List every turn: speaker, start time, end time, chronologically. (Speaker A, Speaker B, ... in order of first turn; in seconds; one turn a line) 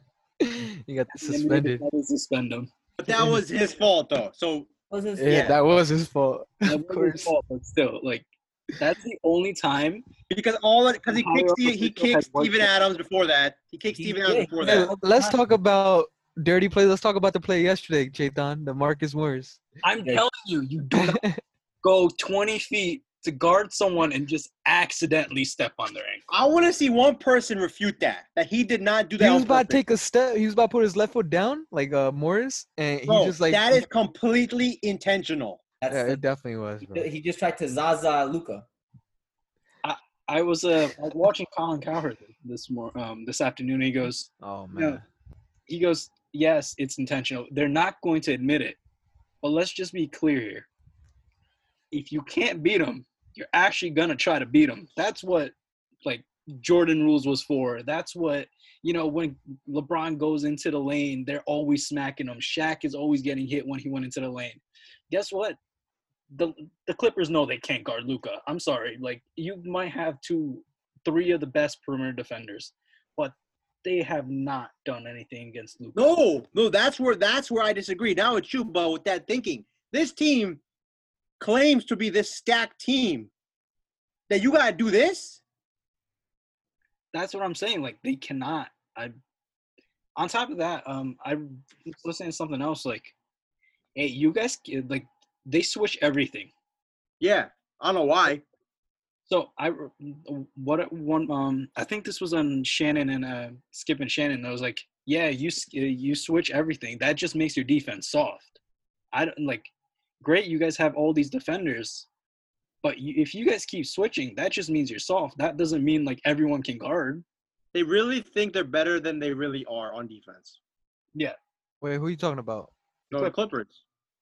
Speaker A: 0.4-1.8
Speaker B: 1.1-2.7
Speaker C: 3.0-4.7
Speaker A: 3.1-3.4
Speaker D: 4.9-5.6
Speaker A: 5.2-7.3
Speaker C: 5.3-5.6
Speaker B: 6.6-10.1
Speaker C: 10.3-14.9
Speaker B: 11.1-12.7
Speaker D: 13.9-15.4
Speaker A: 14.6-19.6
Speaker B: 19.8-21.2
Speaker A: 20.9-21.4
Speaker B: 21.8-26.2
Speaker C: 26.3-29.8
Speaker A: 29.2-33.8
Speaker C: 33.1-35.6
Speaker D: 35.8-36.2
Speaker A: 35.9-37.1
Speaker D: 36.9-38.7
Speaker B: 39.8-45.0
Speaker A: 44.4-45.0
Speaker B: 45.7-48.8
Speaker B: 49.4-50.7
Speaker B: 51.9-65.6
Speaker B: 66.3-76.1
Speaker C: 76.0-80.6
Speaker C: 81.4-83.3
Speaker C: 84.3-85.4
Speaker B: 87.1-89.1
Speaker B: 90.2-93.1
Speaker B: 94.0-96.5
Speaker C: 97.2-98.4
Speaker B: 99.3-108.6
Speaker B: 109.1-109.7
Speaker B: 110.2-112.1
Speaker B: 112.8-117.2
Speaker C: 117.7-120.6
Speaker A: 121.8-122.7
Speaker C: 123.1-123.8